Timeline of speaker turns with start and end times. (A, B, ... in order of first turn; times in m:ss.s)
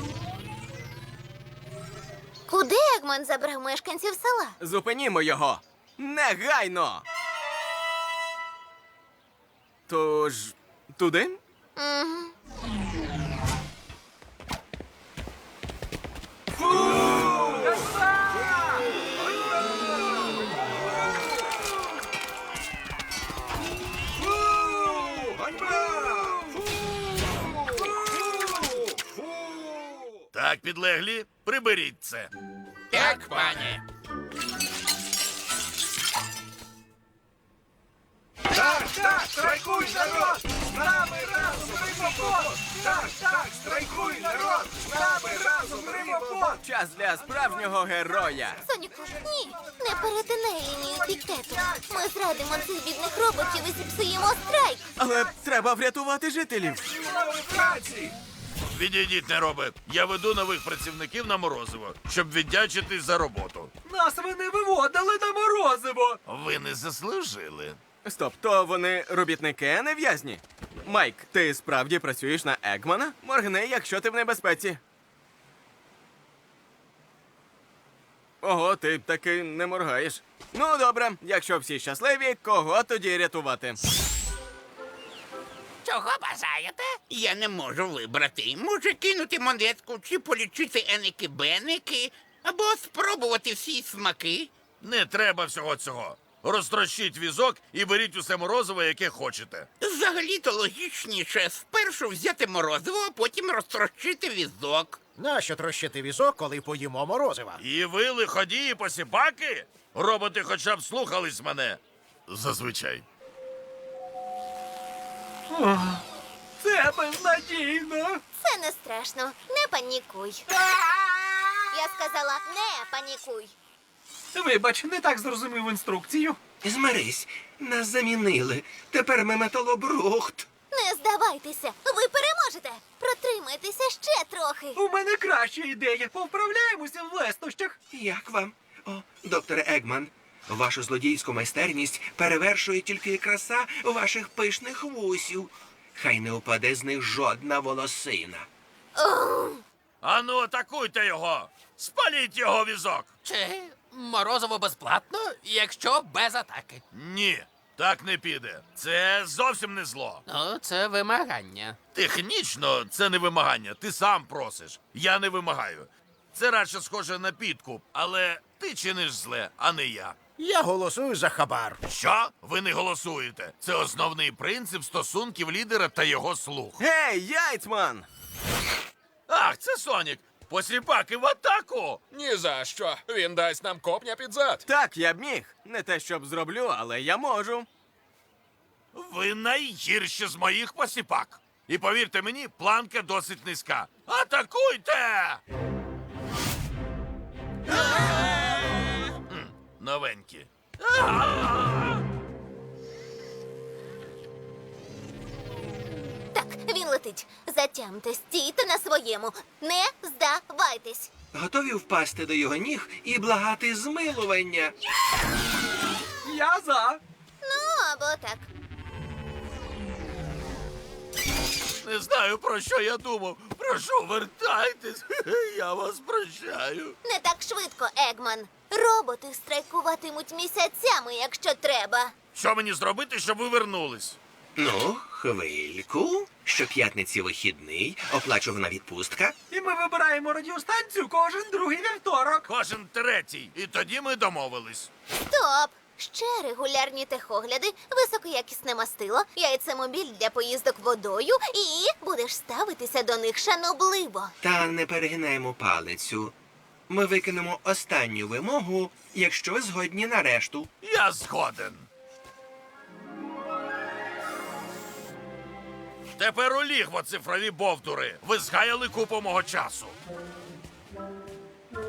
0:02.5-0:04.6 A
0:04.6-0:07.0 B
0:09.9-0:11.4 B
0:11.8-0:12.3 A
0:17.6-0:18.4 C
0:24.4-0:26.5 D
0:28.3-0:30.0 D
0:30.3-0:32.3 E
0:32.9-0:33.8 F
0:38.5-0:46.6 C
0:38.7-0:46.4 D
0:46.5-0:48.6 B
0:48.6-0:54.9 A
0:55.0-0:56.9 B
0:57.0-0:58.1 D
0:58.7-1:03.7 E
1:03.8-1:06.2 C
1:06.3-1:07.8 E
1:08.0-1:14.8 B
1:18.4-1:23.8 B
1:25.8-1:34.5 F
1:34.8-1:39.7 E
1:39.8-1:45.0 F
1:45.2-1:47.6 G
1:47.6-1:53.0 E
1:55.5-1:56.0 C
1:56.6-1:58.2 C
1:58.4-2:00.5 A
2:01.7-2:03.5 A
2:04.3-2:06.4 C
2:06.6-2:10.5 D
2:10.7-2:14.8 A
2:14.8-2:17.8 C
2:17.9-2:28.5 D
2:29.0-2:29.6 A
2:30.0-2:33.1 E
2:33.3-2:33.6 F
2:33.6-2:36.5 H
2:34.8-2:35.2 F
2:35.7-2:36.8 F
2:36.9-2:40.2 E
2:40.3-2:41.6 F
2:40.6-2:41.1 H
2:41.9-2:50.2 E
2:50.4-2:51.8 G
2:51.9-2:56.8 E
2:56.8-2:58.1 B
2:59.3-3:02.1 E
3:02.1-3:04.6 I
3:04.6-3:07.7 B
3:08.9-3:15.4 E
3:19.3-3:22.0 E
3:26.3-3:31.1 A
3:31.3-3:34.8 D
3:36.2-3:37.0 C
3:37.4-3:38.5 A
3:41.8-3:47.0 E
3:47.0-3:52.1 A
3:52.3-3:54.2 E
3:54.6-3:59.4 D
3:59.5-4:02.5 C
4:02.5-4:04.9 E
4:05.3-4:14.3 A
4:14.4-4:16.3 D
4:16.9-4:20.7 D
4:20.8-4:21.9 E
4:26.2-4:30.0 E